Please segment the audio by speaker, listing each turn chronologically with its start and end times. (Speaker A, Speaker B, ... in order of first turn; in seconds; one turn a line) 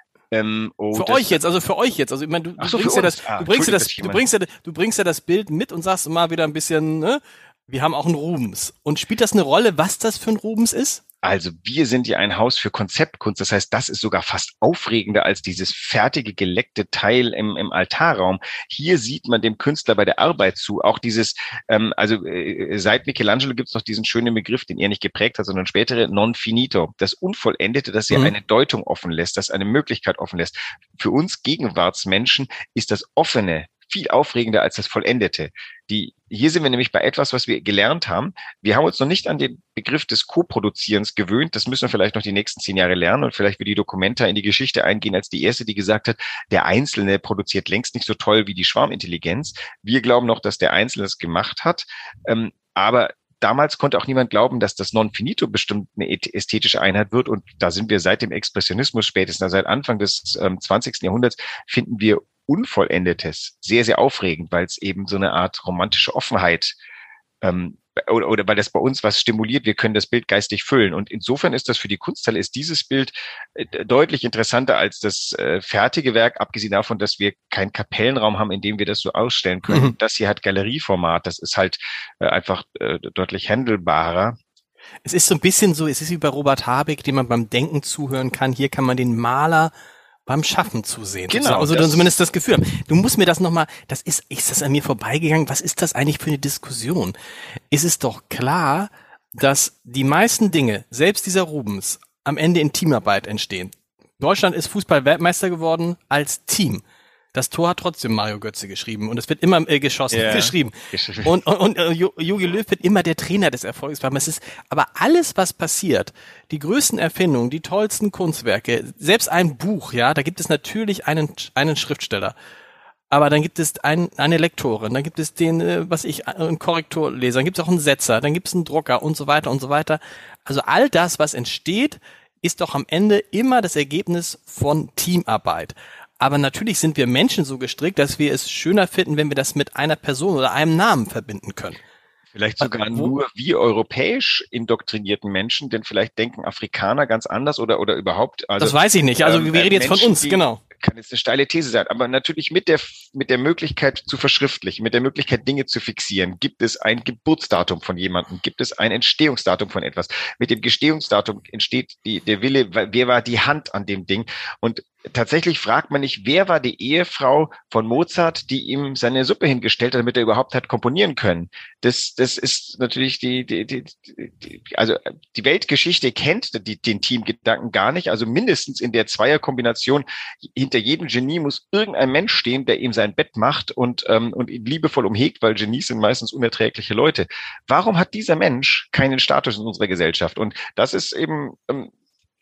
Speaker A: 0.3-1.4
Speaker B: 0.9-11.0
Speaker A: 2.6-4.2
Speaker A: 11.2-66.8
Speaker A: 67.4-84.4
Speaker B: 79.7-79.9
Speaker B: 85.0-89.7
Speaker B: 90.3-97.1
Speaker A: 91.3-92.1
Speaker B: 97.7-106.8
Speaker B: 107.3-122.3
Speaker A: 110.1-111.3
Speaker B: 123.1-141.8
Speaker A: 142.3-191.9
Speaker B: 142.6-143.1
Speaker B: 148.6-150.6